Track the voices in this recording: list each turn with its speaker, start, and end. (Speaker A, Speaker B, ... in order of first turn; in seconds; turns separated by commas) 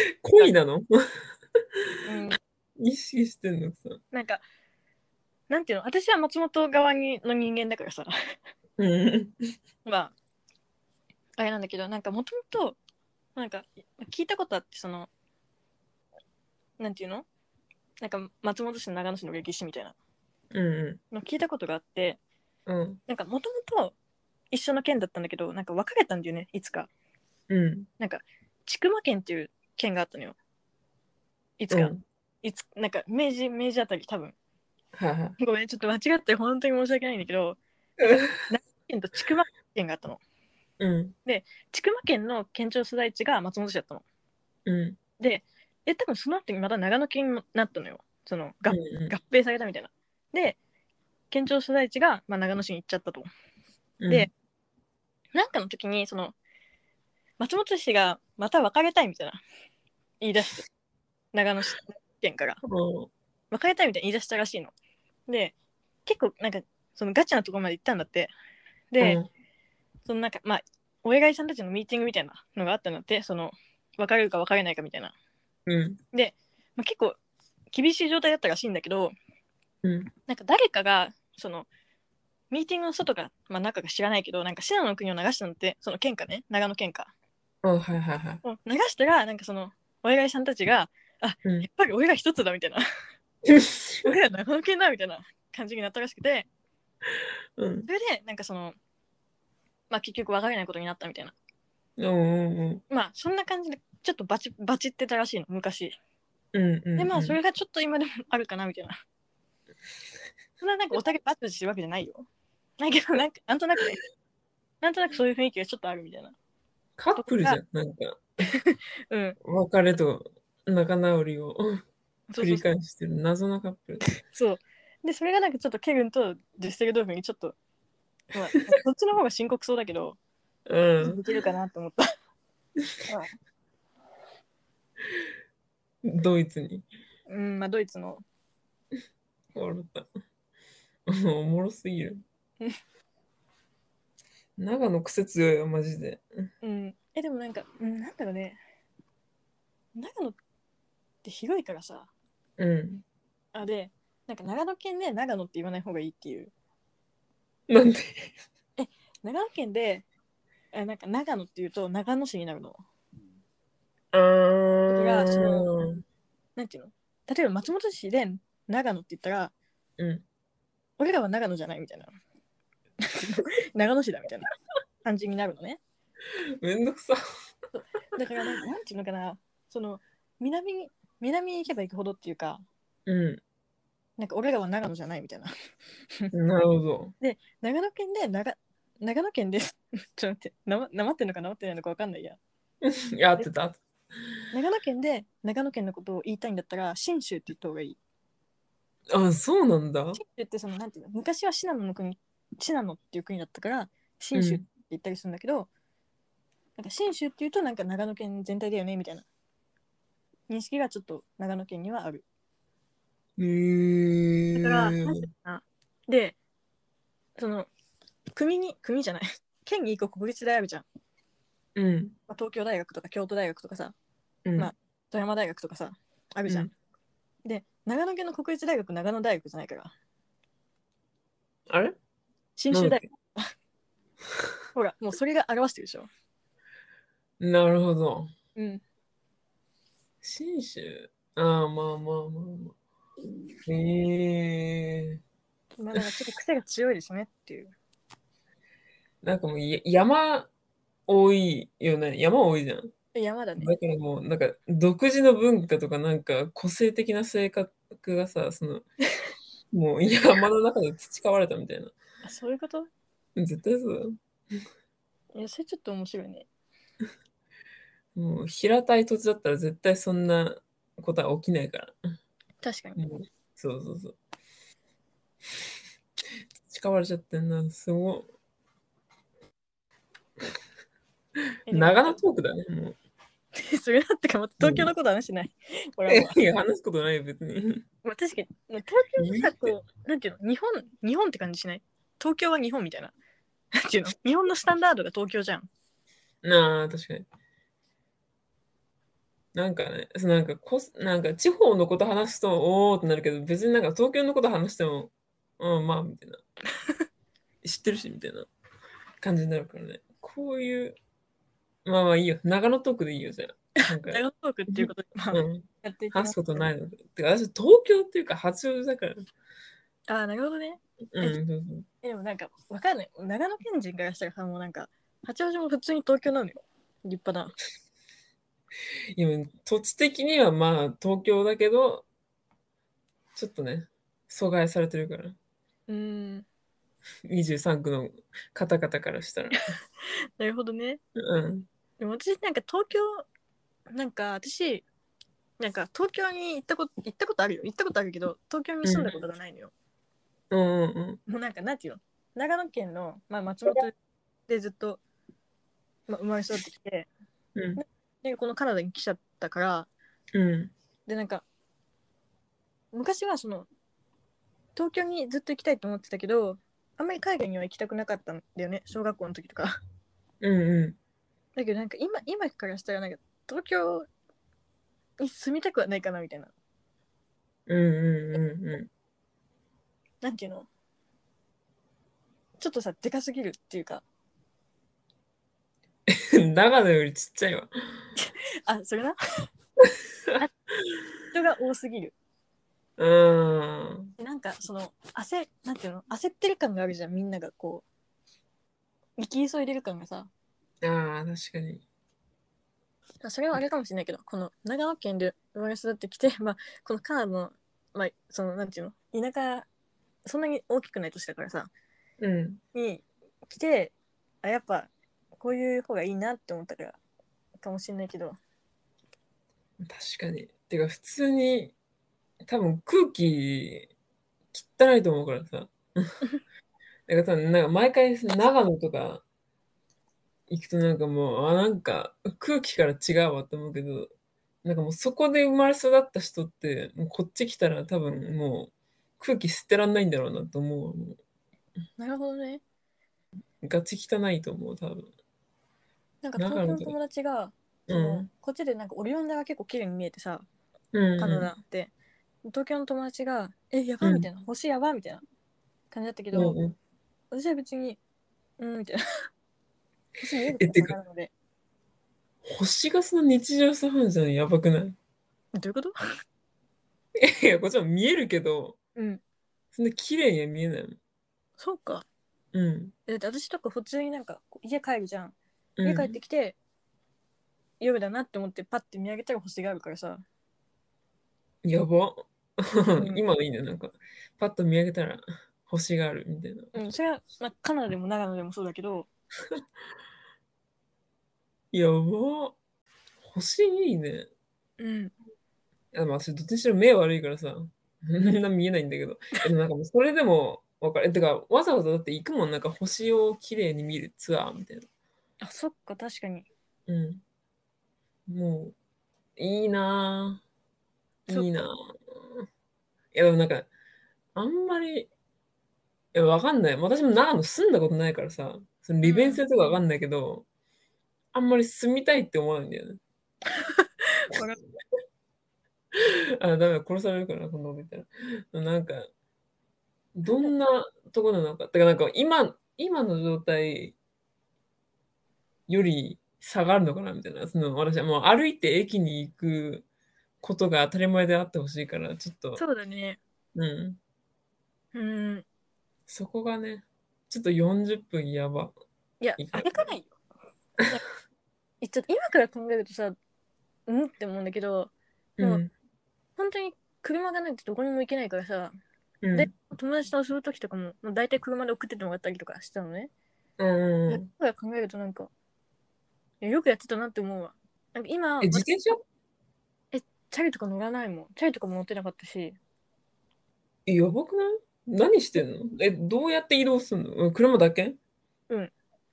Speaker A: 0.2-1.0, Speaker B: 2.0-2.4, Speaker A: 2.8-4.0, Speaker B: 4.1-4.4, Speaker B: 5.5-8.1, Speaker A: 8.8-9.5, Speaker B: 9.8-10.1, Speaker B: 11.4-12.8, Speaker B: 13.3-15.1, Speaker B: 16.8-17.2, Speaker B: 18.0-19.9, Speaker A: 20.5-21.0, Speaker B: 21.1-22.2, Speaker A: 22.7-23.0, Speaker B: 23.1-23.9, Speaker B: 24.5-26.9, Speaker A: 27.5-27.9, Speaker B: 28.0-30.4, Speaker B: 31.6-34.4, Speaker A: 31.7-32.0, Speaker A: 34.9-35.4, Speaker B: 35.4-37.6, Speaker A: 38.0-38.3, Speaker B: 38.5-40.2, Speaker A: 40.8-41.1, Speaker B: 41.2-44.0, Speaker A: 44.6-45.0, Speaker B: 45.2-50.6, Speaker A: 48.7-49.1, Speaker B: 51.3-53.3, Speaker A: 54.0-54.3, Speaker B: 55.3-56.3, Speaker B: 57.4-59.4, Speaker B: 60.2-60.6, Speaker B: 61.3-62.6, Speaker A: 62.6-63.1, Speaker B: 63.5-64.7, Speaker B: 65.3-65.5, Speaker B: 66.0-68.3, Speaker B: 68.9-69.2, Speaker A: 69.0-69.3, Speaker B: 70.0-75.1, Speaker A: 75.7-76.0, Speaker B: 76.1-77.2, Speaker B: 77.7-79.1, Speaker A: 79.8-80.1, Speaker B: 80.3-81.7, Speaker B: 82.5-87.1, Speaker A: 87.6-88.4, Speaker B: 88.4-92.8, Speaker A: 93.4-94.1, Speaker B: 94.0-96.5, Speaker A: 97.6-97.9, Speaker B: 97.8-98.8, Speaker B: 99.9-101.3, Speaker A: 102.0-102.8, Speaker B: 102.9-106.0, Speaker A: 106.5-107.4, Speaker B: 107.0-109.0, Speaker B: 110.6-112.3, Speaker B: 112.8-114.0, Speaker B: 114.8-116.3, Speaker A: 117.0-118.2, Speaker B: 117.2-117.6, Speaker B: 118.5-119.4, Speaker A: 119.4-121.8, Speaker B: 122.3-122.7, Speaker A: 122.4-124.0, Speaker B: 124.3-127.5, Speaker B: 128.3-130.2, Speaker A: 130.7-131.2, Speaker B: 131.0-132.0, Speaker B: 133.1-133.3, Speaker A: 136.0-136.8, Speaker B: 137.3-138.2, Speaker A: 139.5-140.1, Speaker A: 141.1-142.2, Speaker A: 144.6-146.5, Speaker B: 146.6-148.6, Speaker B: 149.9-150.4, Speaker B: 151.2-152.1, Speaker A: 152.6-153.0, Speaker B: 153.5-156.5, Speaker A: 157.7-158.3, Speaker B: 158.8-160.0, Speaker B: 160.7-162.8, Speaker A: 164.1-166.0, Speaker B: 164.9-165.7, Speaker B: 166.6-169.5, Speaker A: 170.0-170.2, Speaker B: 171.0-172.1, Speaker B: 173.0-174.5, Speaker B: 175.0-175.8, Speaker A: 176.4-177.2, Speaker B: 177.7-182.6, Speaker A: 183.1-183.4, Speaker B: 184.2-185.5, Speaker A: 186.3-187.1, Speaker B: 187.2-192.4, Speaker A: 192.8-193.8, Speaker B: 194.5-198.0, Speaker A: 199.1-200.2, Speaker B: 200.2-205.7, Speaker A: 204.3-204.6, Speaker B: 206.8-209.2, Speaker B: 210.5-212.2, Speaker A: 213.4-215.3, Speaker B: 214.5-216.3, Speaker B: 217.4-217.7, Speaker B: 218.3-220.8, Speaker A: 221.8-222.1, Speaker B: 222.3-223.9, Speaker A: 224.4-224.7, Speaker B: 224.6-226.7, Speaker B: 227.4-229.9, Speaker A: 231.7-232.0, Speaker B: 232.6-233.5, Speaker A: 232.7-233.0, Speaker B: 234.7-236.1, Speaker A: 237.4-238.3, Speaker B: 238.6-238.8, Speaker A: 240.2-242.8, Speaker A: 243.6-245.2, Speaker B: 245.8-247.7, Speaker A: 249.2-250.5, Speaker A: 251.1-252.9, Speaker B: 253.1-253.7, Speaker A: 253.6-258.8, Speaker A: 259.7-261.9, Speaker B: 262.2-262.9, Speaker A: 263.4-264.2, Speaker B: 265.3-266.5, Speaker A: 268.1-271.9, Speaker B: 272.6-273.0, Speaker A: 273.0-274.2, Speaker A: 276.7-278.3, Speaker B: 281.7-282.2, Speaker A: 281.7-282.9, Speaker B: 283.6-286.4, Speaker A: 284.6-284.9, Speaker A: 286.1-287.8, Speaker B: 288.0-293.1, Speaker A: 289.2-289.7, Speaker B: 293.8-295.7, Speaker A: 296.4-297.3, Speaker A: 299.5-306.4, Speaker A: 307.6-308.5, Speaker A: 309.2-311.0, Speaker A: 311.8-319.2, Speaker B: 313.8-316.7, Speaker B: 320.1-321.4, Speaker A: 321.1-321.9, Speaker B: 322.0-327.5, Speaker A: 329.1-332.1, Speaker A: 333.3-335.4, Speaker B: 335.9-336.4, Speaker A: 337.3-339.6, Speaker B: 340.4-341.0, Speaker A: 341.1-341.7, Speaker B: 342.0-343.2, Speaker B: 343.9-344.8, Speaker B: 345.6-349.7, Speaker A: 348.8-349.2, Speaker A: 350.5-351.2, Speaker B: 351.3-353.9, Speaker B: 354.5-355.0, Speaker B: 356.1-357.1, Speaker A: 357.6-357.8, Speaker B: 357.7-359.9, Speaker A: 360.3-360.7, Speaker B: 361.1-361.4, Speaker B: 362.9-363.7, Speaker B: 364.8-369.8, Speaker A: 370.4-371.0, Speaker B: 371.6-374.1, Speaker B: 375.2-376.5, Speaker A: 377.7-378.9, Speaker B: 380.2-380.7, Speaker B: 382.6-384.0, Speaker A: 386.1-387.7, Speaker B: 388.2-389.2, Speaker A: 389.8-391.0, Speaker B: 391.3-392.1, Speaker A: 393.0-394.1, Speaker B: 394.2-397.8, Speaker B: 399.2-400.3, Speaker A: 400.8-401.8, Speaker B: 403.2-409.6, Speaker B: 410.2-411.7, Speaker A: 412.2-412.6, Speaker B: 412.7-414.9, Speaker B: 415.4-417.0, Speaker B: 417.6-418.4, Speaker A: 419.8-421.7, Speaker A: 422.4-423.9, Speaker A: 424.5-426.1, Speaker A: 427.1-429.2, Speaker A: 430.5-434.1, Speaker A: 434.6-441.2, Speaker B: 442.0-442.6, Speaker A: 443.6-445.1, Speaker B: 446.2-450.4, Speaker A: 446.4-446.9, Speaker A: 447.9-448.3, Speaker A: 450.9-451.5, Speaker B: 451.2-451.9, Speaker B: 452.5-455.2, Speaker B: 455.9-456.6, Speaker A: 456.3-456.8, Speaker B: 457.3-458.0, Speaker B: 458.6-459.0, Speaker B: 460.2-461.3, Speaker A: 460.6-460.9, Speaker A: 462.4-464.9, Speaker B: 465.6-465.9, Speaker A: 467.2-468.8, Speaker B: 468.9-469.2, Speaker A: 469.7-471.0, Speaker B: 471.6-472.1, Speaker A: 472.5-472.9, Speaker B: 473.1-476.6, Speaker A: 475.8-476.2, Speaker B: 477.8-480.2, Speaker A: 481.6-486.7, Speaker B: 482.9-483.2, Speaker B: 486.7-489.1, Speaker A: 491.7-492.6, Speaker A: 493.2-494.3, Speaker B: 494.8-495.1, Speaker A: 495.9-504.9, Speaker B: 505.4-506.5, Speaker A: 506.9-507.2, Speaker A: 508.3-508.7, Speaker A: 509.4-510.4, Speaker B: 511.3-511.7, Speaker A: 511.3-512.5, Speaker A: 513.1-513.7, Speaker A: 514.3-515.1, Speaker A: 516.1-520.5, Speaker B: 519.0-519.4, Speaker A: 521.3-523.0, Speaker B: 523.6-524.6, Speaker A: 525.9-529.0, Speaker A: 530.1-534.0, Speaker B: 530.3-530.5, Speaker A: 535.7-539.9, Speaker A: 540.4-542.6, Speaker B: 542.6-543.2, Speaker A: 543.5-544.0, Speaker B: 544.9-545.5, Speaker A: 546.1-548.7, Speaker B: 549.2-550.2, Speaker A: 549.4-549.9, Speaker B: 551.8-553.1, Speaker B: 553.9-555.6, Speaker A: 555.4-555.7, Speaker B: 556.4-558.7, Speaker A: 559.2-559.5, Speaker B: 559.3-563.1, Speaker A: 563.6-564.3, Speaker B: 564.1-565.3, Speaker B: 566.4-568.7, Speaker A: 568.4-569.0, Speaker B: 569.9-572.6, Speaker A: 573.9-578.0